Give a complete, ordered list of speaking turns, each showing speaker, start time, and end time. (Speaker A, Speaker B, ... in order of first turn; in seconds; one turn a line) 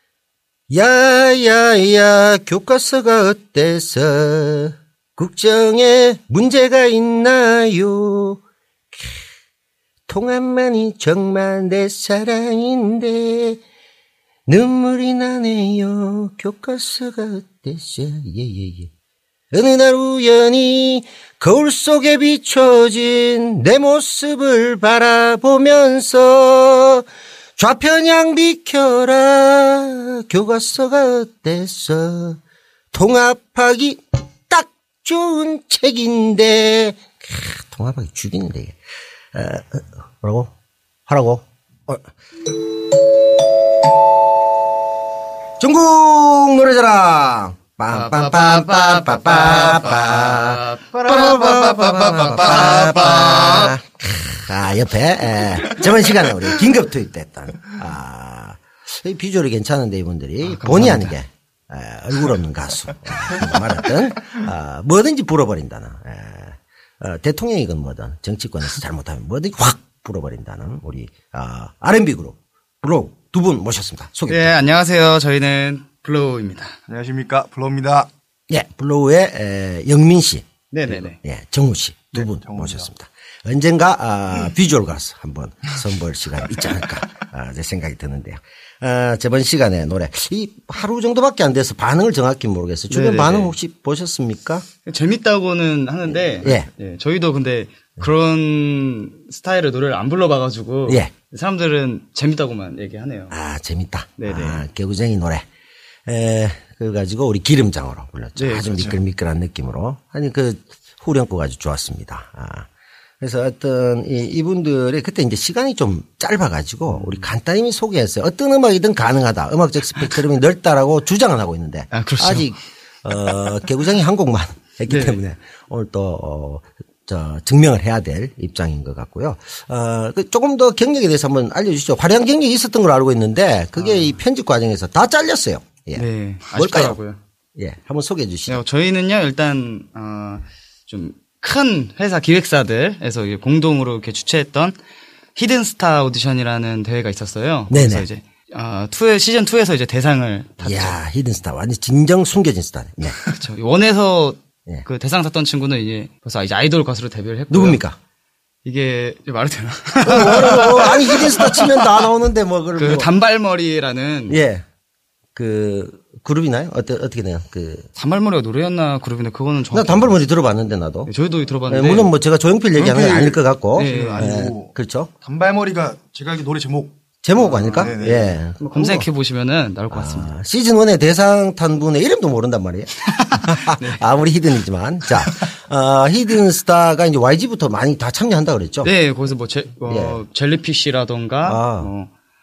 Speaker A: 0.7-8.4
Speaker A: 10.1-13.6
Speaker A: 14.5-18.9
Speaker A: 19.5-27.1
Speaker A: 27.6-32.4
Speaker A: 32.9-38.8
Speaker A: 39.3-40.5
Speaker A: 41.1-42.0
Speaker A: 45.6-74.5
Speaker B: 47.9-53.7
Speaker B: 60.4-61.1
Speaker B: 74.3-76.7
Speaker C: 76.9-78.1
Speaker A: 78.5-94.6
Speaker B: 80.7-81.2
Speaker C: 82.1-82.9
Speaker B: 92.9-93.5
Speaker B: 94.8-103.3
Speaker A: 96.1-96.7
Speaker A: 100.9-101.1
Speaker A: 103.3-105.4
Speaker B: 104.2-104.6
Speaker A: 106.1-112.7
Speaker B: 108.4-108.9
Speaker A: 113.2-137.0
Speaker B: 116.9-117.3
Speaker B: 121.9-122.5
Speaker B: 124.9-125.2
Speaker B: 133.8-134.2
Speaker B: 135.9-137.2
Speaker A: 137.6-138.6
Speaker B: 138.5-144.8
Speaker B: 145.3-151.0
Speaker A: 147.7-148.1
Speaker A: 150.6-153.2
Speaker B: 153.2-157.8
Speaker A: 157.5-157.9
Speaker B: 158.6-162.1
Speaker A: 160.0-163.1
Speaker B: 162.8-164.4
Speaker A: 164.3-164.6
Speaker A: 165.3-167.9
Speaker B: 167.9-170.2
Speaker A: 169.7-171.1
Speaker B: 171.1-172.1
Speaker A: 171.7-175.1
Speaker C: 172.7-177.0
Speaker B: 173.7-174.4
Speaker A: 177.2-179.1
Speaker B: 177.4-178.0
Speaker C: 177.7-178.4
Speaker B: 178.6-180.3
Speaker A: 179.9-188.9
Speaker B: 183.1-184.0
Speaker B: 188.8-192.1
Speaker A: 189.9-190.2
Speaker A: 191.4-191.9